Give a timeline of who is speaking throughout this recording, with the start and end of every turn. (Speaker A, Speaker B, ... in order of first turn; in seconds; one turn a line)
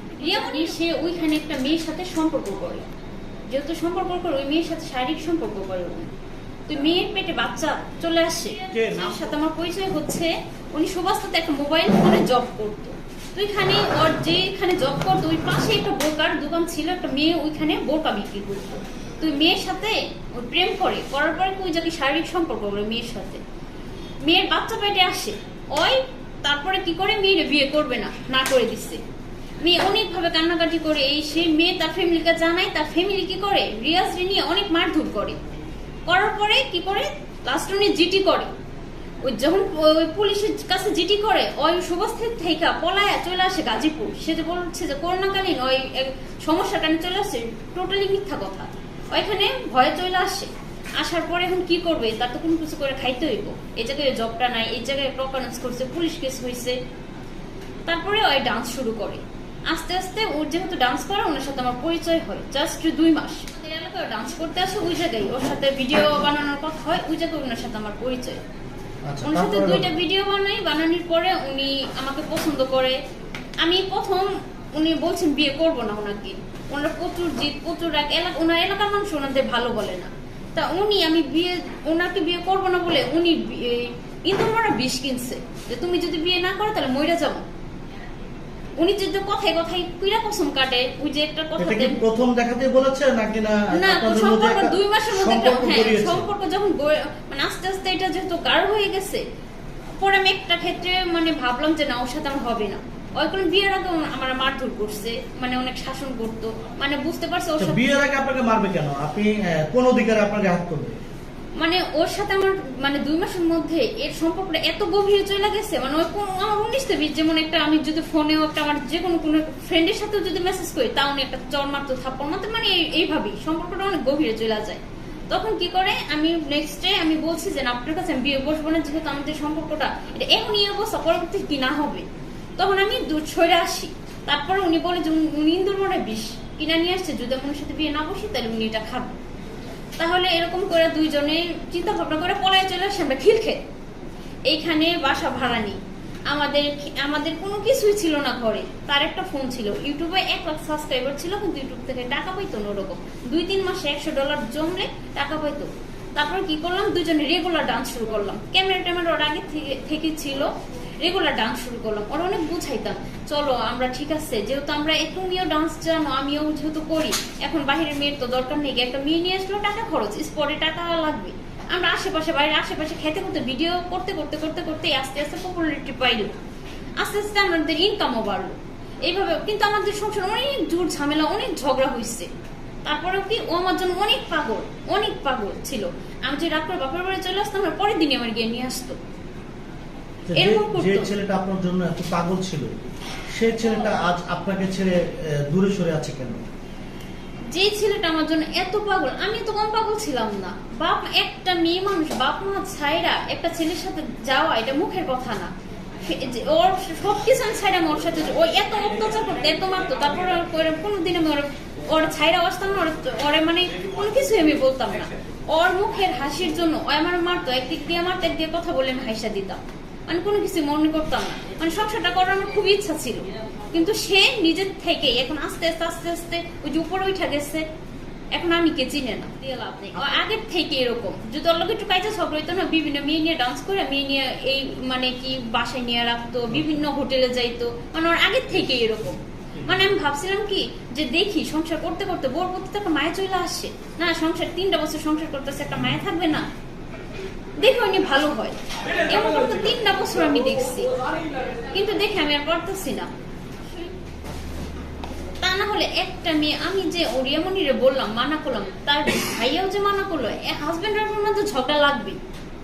Speaker A: 0.2-2.9
Speaker A: 3.5-6.1
Speaker A: 6.7-23.4
Speaker B: 8.7-9.3
Speaker A: 24.2-29.0
Speaker A: 29.6-35.4
Speaker A: 36.1-38.5
Speaker A: 39.2-56.8
Speaker A: 57.9-68.4
Speaker B: 69.1-69.9
Speaker A: 69.2-73.0
Speaker A: 73.6-87.5
Speaker A: 88.8-92.0
Speaker B: 91.6-96.3
Speaker A: 93.7-99.2
Speaker A: 100.0-107.8
Speaker B: 107.6-111.0
Speaker A: 111.6-132.1
Speaker A: 132.6-139.2
Speaker A: 140.0-143.7
Speaker A: 144.5-176.3
Speaker A: 177.0-182.3
Speaker A: 182.8-189.0
Speaker B: 190.3-192.7
Speaker A: 190.3-191.1
Speaker B: 193.4-196.4
Speaker A: 197.5-227.6
Speaker A: 228.3-246.5
Speaker A: 247.6-248.6
Speaker A: 249.1-251.0
Speaker A: 251.7-253.1
Speaker A: 255.4-262.2